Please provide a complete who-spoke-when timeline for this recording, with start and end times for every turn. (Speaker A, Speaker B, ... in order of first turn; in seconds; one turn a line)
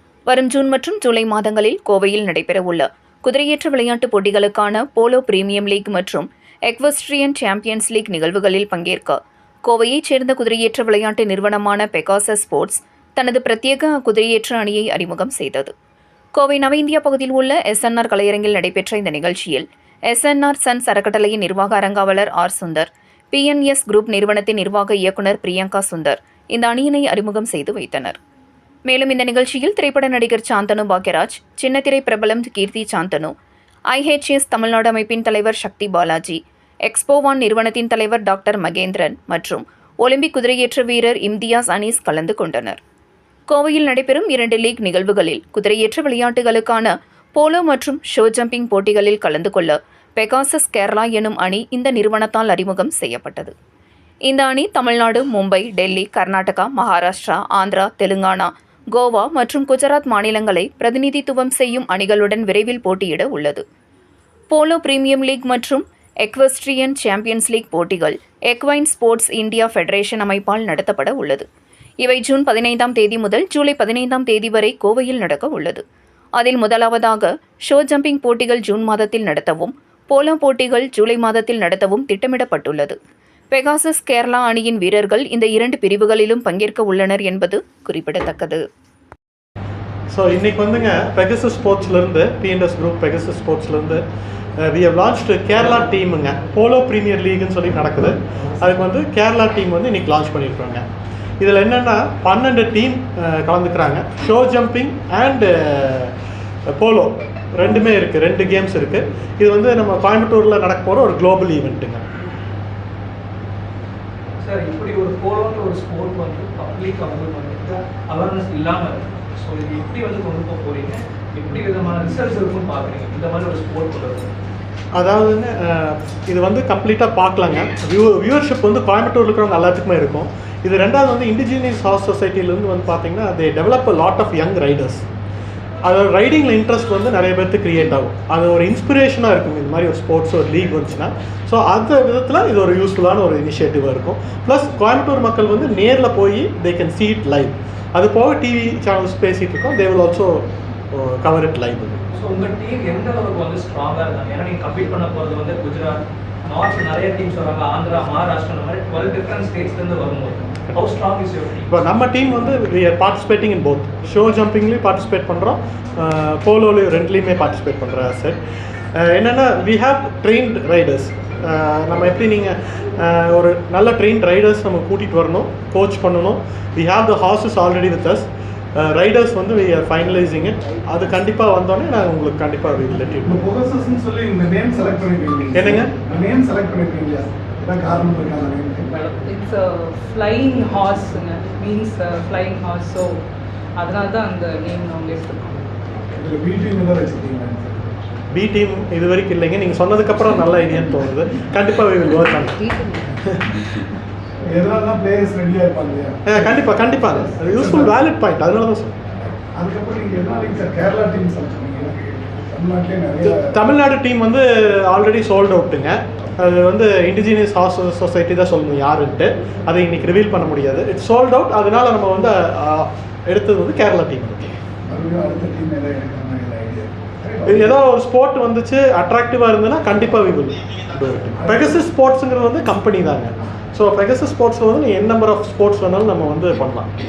Speaker A: 0.3-15.7
Speaker A: 16.4-28.2
Speaker A: 28.9-33.3
Speaker A: 33.9-42.8
Speaker A: 43.5-53.5
Speaker A: 54.3-63.6
Speaker A: 64.5-71.5
Speaker A: 72.0-75.8
Speaker A: 76.4-83.0
Speaker A: 83.5-88.7
Speaker B: 90.1-94.0
Speaker B: 94.6-100.8
Speaker B: 101.4-106.1
Speaker B: 106.7-112.0
Speaker C: 114.4-124.3
Speaker B: 125.0-135.0
Speaker B: 135.8-152.0
Speaker C: 152.1-161.7
Speaker B: 161.7-168.4
Speaker B: 169.0-183.4
Speaker D: 183.2-188.9
Speaker B: 185.5-185.9
Speaker E: 188.9-193.2
Speaker E: 193.8-195.6
Speaker D: 196.1-197.9
Speaker B: 198.3-202.6
Speaker E: 202.6-203.1
Speaker B: 203.2-203.6
Speaker D: 204.4-206.5
Speaker B: 206.3-209.0
Speaker D: 207.6-207.9
Speaker D: 209.6-213.5
Speaker B: 213.2-224.5
Speaker D: 224.9-227.7
Speaker B: 227.5-236.9
Speaker D: 231.4-231.7